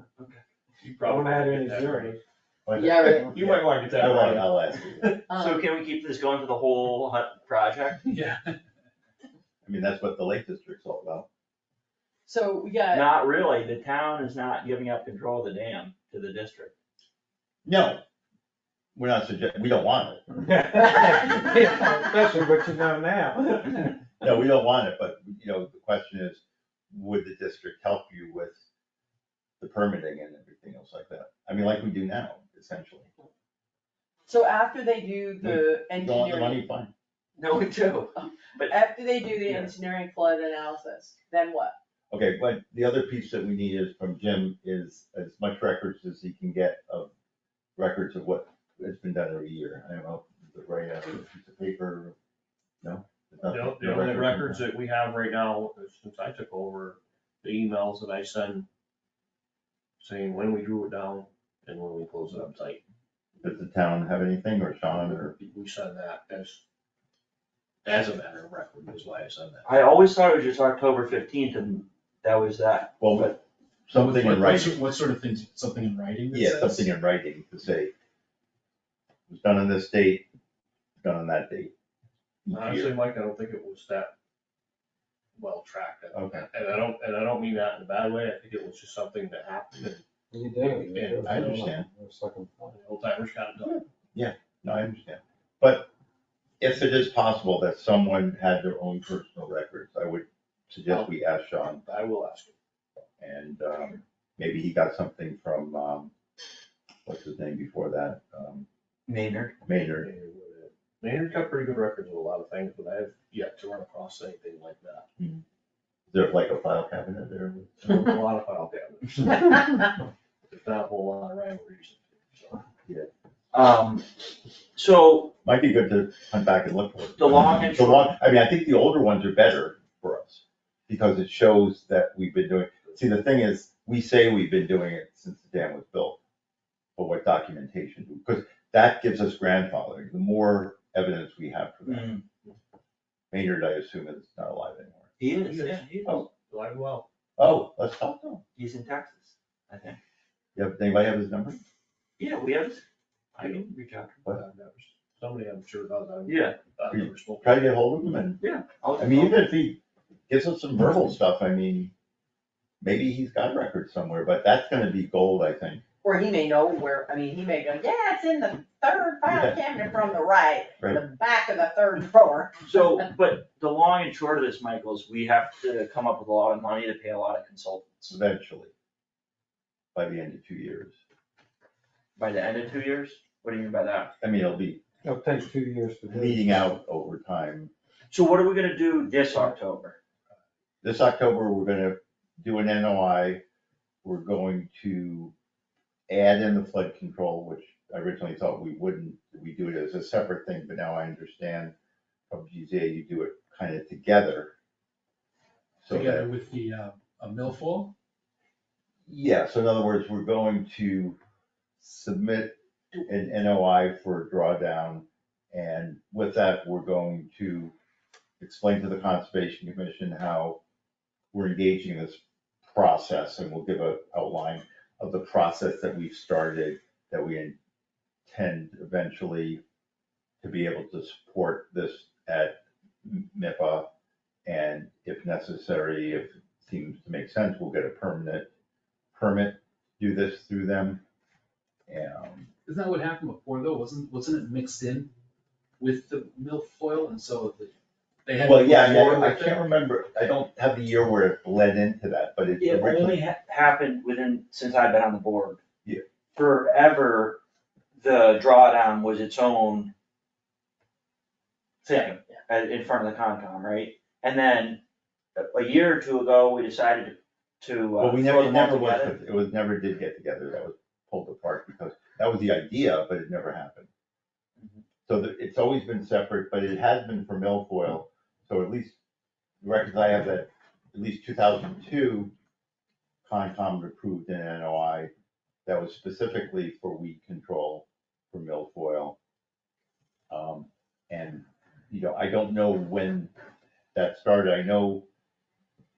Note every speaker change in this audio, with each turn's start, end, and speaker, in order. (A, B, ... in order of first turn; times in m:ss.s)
0:00.8-0:02.2 A
0:01.0-0:02.2 B
0:02.7-0:05.2 C
0:02.8-0:03.2 D
0:03.2-0:05.2 A
0:05.3-0:05.7 D
0:05.3-0:08.0 E
0:08.1-0:08.5 F
0:09.6-0:11.3 C
0:12.3-0:13.1 D
0:12.9-0:16.7 E
0:17.6-0:18.0 C
0:19.0-0:20.2 C
0:20.4-0:23.8 B
0:24.2-0:28.6 C
0:29.6-0:33.1 C
0:34.3-0:36.6 D
0:35.4-0:36.9 C
0:37.4-0:38.8 E
0:38.7-0:41.8 D
0:39.4-0:39.7 E
0:42.1-0:47.1 C
0:47.8-0:52.2 C
0:52.8-0:54.6 C
0:53.4-0:58.7 A
1:00.0-1:02.8 A
1:03.4-1:05.3 C
1:04.9-1:06.6 A
1:07.8-1:10.0 A
1:09.6-1:13.4 E
1:13.0-1:14.8 C
1:13.9-1:16.9 F
1:16.3-1:17.9 C
1:19.3-1:20.3 C
1:21.0-1:21.7 C
1:22.4-1:23.0 C
1:22.5-1:24.1 A
1:25.4-1:30.0 A
1:26.1-1:26.5 C
1:30.3-1:32.8 B
1:30.6-1:31.7 A
1:31.2-1:31.9 C
1:32.7-1:33.8 A
1:33.6-1:35.9 C
1:36.6-1:41.8 C
1:40.9-1:41.1 A
1:41.8-1:42.6 A
1:43.2-1:46.1 C
1:47.1-1:48.7 C
1:49.1-1:49.5 E
1:49.6-1:50.1 C
1:50.0-1:55.0 A
1:56.1-1:58.0 C
1:57.8-1:59.9 A
2:00.5-2:02.6 A
2:03.5-2:04.2 E
2:04.8-2:05.3 E
2:05.4-2:16.2 C
2:07.2-2:08.1 E
2:17.0-2:22.1 C
2:21.8-2:22.2 E
2:23.3-2:25.1 C
2:25.2-2:26.3 E
2:25.4-2:27.1 A
2:27.4-2:28.4 C
2:28.6-2:30.0 E
2:30.6-2:31.6 C
2:32.2-2:32.8 E
2:33.4-2:34.2 E
2:34.3-2:37.6 A
2:36.3-2:36.6 E
2:36.9-2:38.4 C
2:38.4-2:39.5 E
2:39.0-2:41.9 C
2:42.8-2:45.8 C
2:46.0-2:52.8 D
2:49.3-2:49.6 C
2:52.6-2:58.2 E
2:58.1-2:58.7 C
2:59.9-3:01.0 C
3:02.2-3:04.1 E
3:04.2-3:04.8 C
3:05.0-3:06.7 B
3:06.1-3:07.7 C
3:08.1-3:10.0 E
3:10.8-3:13.4 C
3:14.0-3:15.3 C
3:16.1-3:21.7 C
3:22.3-3:24.5 C
3:25.8-3:26.3 C
3:25.9-3:27.9 F
3:29.1-3:31.2 C
3:31.8-3:37.7 C
3:38.4-3:40.6 C
3:41.3-3:47.6 C
3:48.3-3:49.6 C
3:50.4-3:53.9 C
3:54.5-3:58.5 C
3:59.1-4:01.0 C
4:01.9-4:02.5 C
4:02.7-4:05.1 F
4:05.8-4:07.7 F
4:08.2-4:09.6 F
4:08.4-4:13.2 C
4:12.6-4:15.6 E
4:16.3-4:17.4 E
4:18.0-4:19.9 E
4:21.8-4:24.8 E
4:25.4-4:29.2 E
4:28.0-4:33.9 C
4:35.1-4:39.0 C
4:39.6-4:42.3 C
4:43.2-4:45.1 C
4:45.7-4:49.2 C
4:50.3-4:53.3 C
4:54.0-4:55.1 C